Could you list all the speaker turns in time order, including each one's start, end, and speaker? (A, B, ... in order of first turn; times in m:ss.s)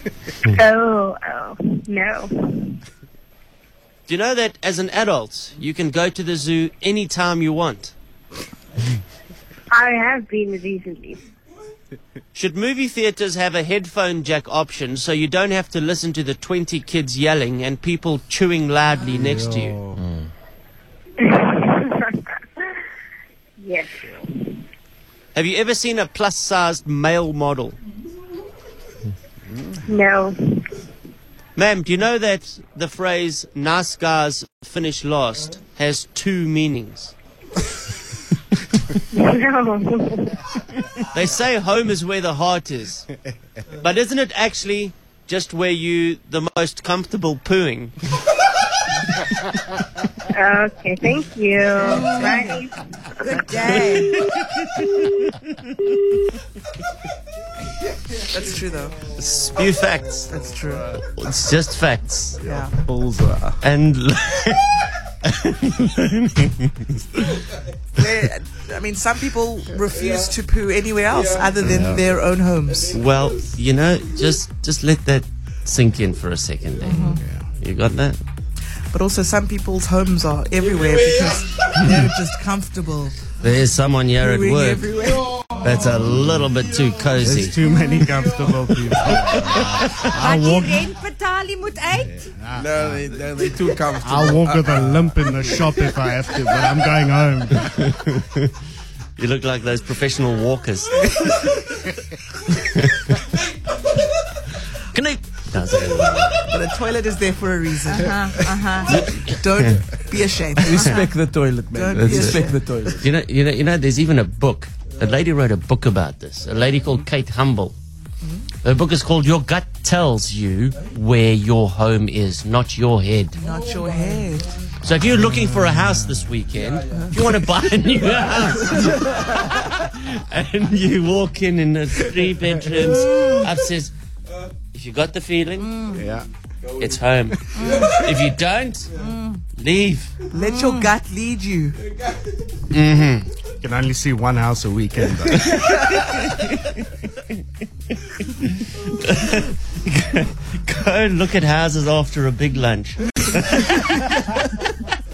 0:00.4-0:02.6 A
0:04.1-0:07.9 B
0:09.7-0:11.2 A
0:12.3-0:20.3 B
0:19.1-0:20.0 C
0:21.2-0:22.8 A
0:23.6-0:24.6 A
0:25.3-0:27.8 B
0:29.8-0:30.6 A
0:31.6-0:37.1 B
0:39.1-0:40.5 A
0:41.0-0:43.0 B
0:43.7-0:47.9 B
0:50.3-0:52.8 A
0:51.8-0:52.6 D
0:53.2-0:54.2 D
0:54.8-0:55.1 B
0:58.3-0:59.0 E
0:59.2-1:00.3 B
1:00.3-1:00.9 E
1:01.0-1:02.4 B
1:02.4-1:02.8 E
1:02.4-1:03.6 C
1:03.6-1:07.2 B
1:07.9-1:13.0 E
1:11.6-1:12.0 C
1:12.9-1:18.2 B
1:16.9-1:17.1 E
1:17.2-1:17.4 C
1:18.9-1:23.2 E
1:23.4-1:27.6 B
1:24.2-1:25.6 E
1:27.2-1:30.9 C
1:29.3-1:30.7 B
1:30.2-1:32.3 D
1:32.1-1:33.1 C
1:32.5-1:35.6 F
1:34.0-1:38.0 C
1:37.6-1:38.5 B
1:39.2-1:41.4 B
1:42.5-1:43.1 B
1:44.7-1:46.5 B
1:46.4-1:51.0 E
1:47.9-1:49.0 D
1:48.9-1:49.8 B
1:50.6-1:53.1 F
1:51.7-1:52.6 E
1:51.9-1:57.8 B
1:58.6-2:03.4 B
2:03.4-2:04.5 E
2:04.8-2:13.9 B
2:13.0-2:13.5 D
2:14.7-2:15.8 B
2:15.6-2:16.0 D
2:15.9-2:16.3 C
2:16.8-2:18.9 B
2:17.5-2:17.9 C
2:17.5-2:17.9 D
2:19.0-2:19.4 D
2:19.5-2:20.1 B
2:20.3-2:21.8 E
2:20.4-2:20.9 D
2:22.7-2:23.3 B
2:23.6-2:25.5 C
2:25.4-2:26.8 B
2:28.0-2:34.2 B